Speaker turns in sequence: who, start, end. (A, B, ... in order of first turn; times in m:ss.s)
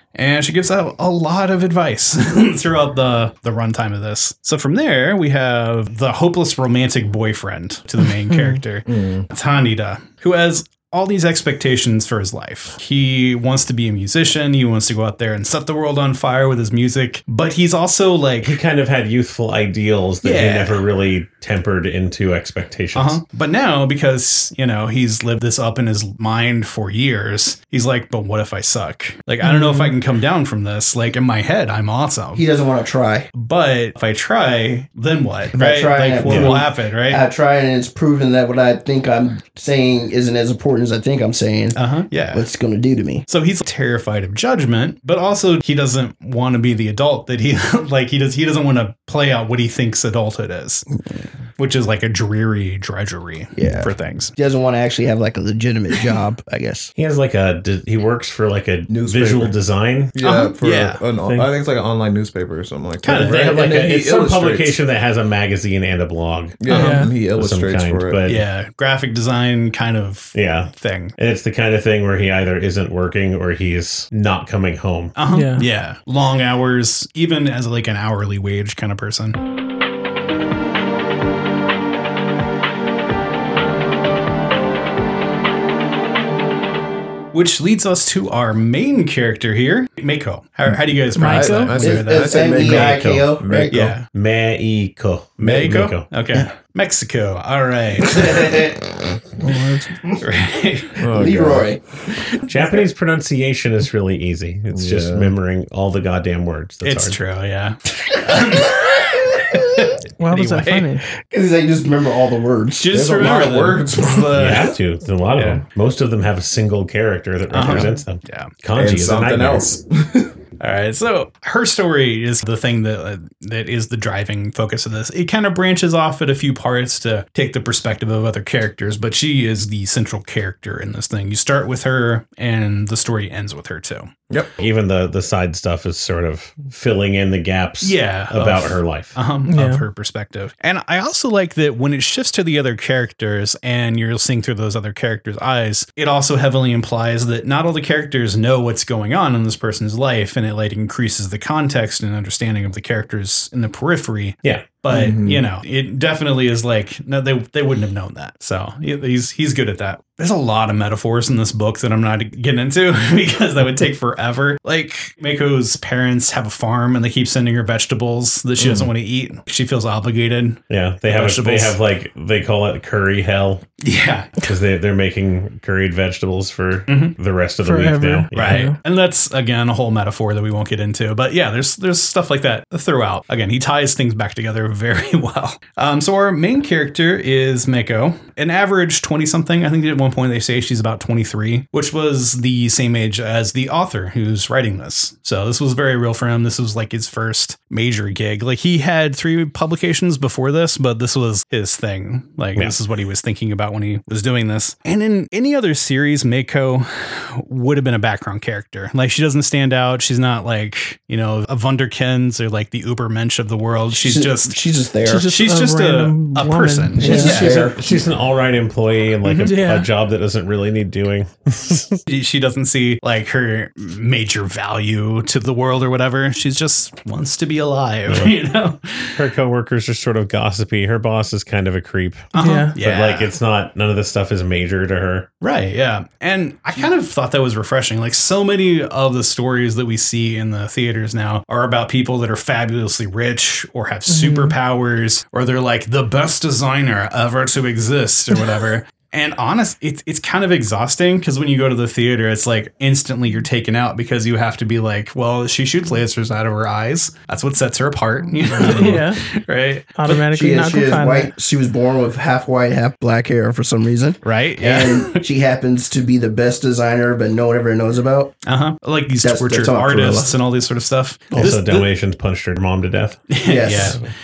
0:00.1-0:18.6 A
0:08.3-0:08.6 B
0:08.9-0:09.2 C
0:18.4-0:23.2 D
0:20.2-0:20.8 A
0:22.9-0:32.4 A
0:29.4-0:29.9 B
0:32.3-0:33.3 E
0:33.3-0:37.2 A
0:35.5-0:41.8 E
0:36.2-0:36.6 D
0:41.7-0:42.4 A
0:42.3-0:43.2 E
0:43.3-0:50.8 A
0:51.6-0:54.3 A
0:53.5-0:56.9 E
0:57.0-1:00.1 D
0:58.9-0:59.6 C
1:00.1-1:04.8 C
1:00.2-1:01.0 A
1:01.2-1:01.5 D
1:03.0-1:03.5 A
1:03.0-1:08.4 D
1:06.6-1:08.2 C
1:06.7-1:07.1 B
1:06.7-1:07.0 A
1:08.2-1:11.1 A
1:10.3-1:15.2 D
1:15.2-1:19.4 A
1:15.3-1:15.6 B
1:27.3-1:33.0 A
1:31.2-1:31.8 B
1:31.2-1:33.9 C
1:31.8-1:33.8 E
1:32.6-1:33.3 D
1:33.7-1:34.1 A
1:34.0-1:36.1 D
1:35.4-1:38.6 A
1:38.0-1:38.9 E
1:39.4-1:40.0 B
1:40.2-1:41.0 A
1:41.0-1:41.7 C
1:41.1-1:41.8 E
1:42.5-1:47.2 D
1:44.7-1:45.3 C
1:46.8-1:50.9 A
1:48.2-1:48.8 E
1:50.2-1:51.0 B
1:51.2-1:52.9 E
1:52.8-1:54.8 A
1:52.9-1:54.4 C
1:54.3-1:59.6 D
1:55.3-1:55.6 A
1:57.5-1:58.5 A
1:58.7-2:00.3 C
2:00.6-2:14.1 A
2:14.6-2:19.2 D
2:17.8-2:51.8 A
2:19.5-2:19.8 B
2:34.4-2:34.7 D
2:34.9-2:35.4 C
2:48.6-2:48.9 C
2:50.7-2:53.8 D
2:53.8-2:54.4 A
2:54.4-2:58.7 D
2:56.9-2:57.1 A
2:57.6-2:58.8 B
2:58.3-3:34.6 A
3:33.9-3:35.3 E
3:35.0-3:37.6 B
3:35.2-3:37.8 A
3:37.0-3:37.8 E
3:37.0-3:42.0 D
3:39.2-3:39.6 A
3:39.4-3:39.9 B
3:42.1-3:49.2 A
3:48.1-3:48.3 D
3:49.2-3:55.3 D
3:52.3-3:53.3 A
3:52.3-3:52.8 B
3:55.4-4:20.2 A
4:04.1-4:04.6 B
4:18.5-4:19.2 B
4:20.0-4:21.3 B
4:20.2-4:28.4 E
4:24.2-4:25.2 A
4:28.4-4:31.9 A
4:29.2-4:30.4 E
4:31.3-4:34.0 D
4:33.3-4:34.0 A
4:33.4-4:34.0 E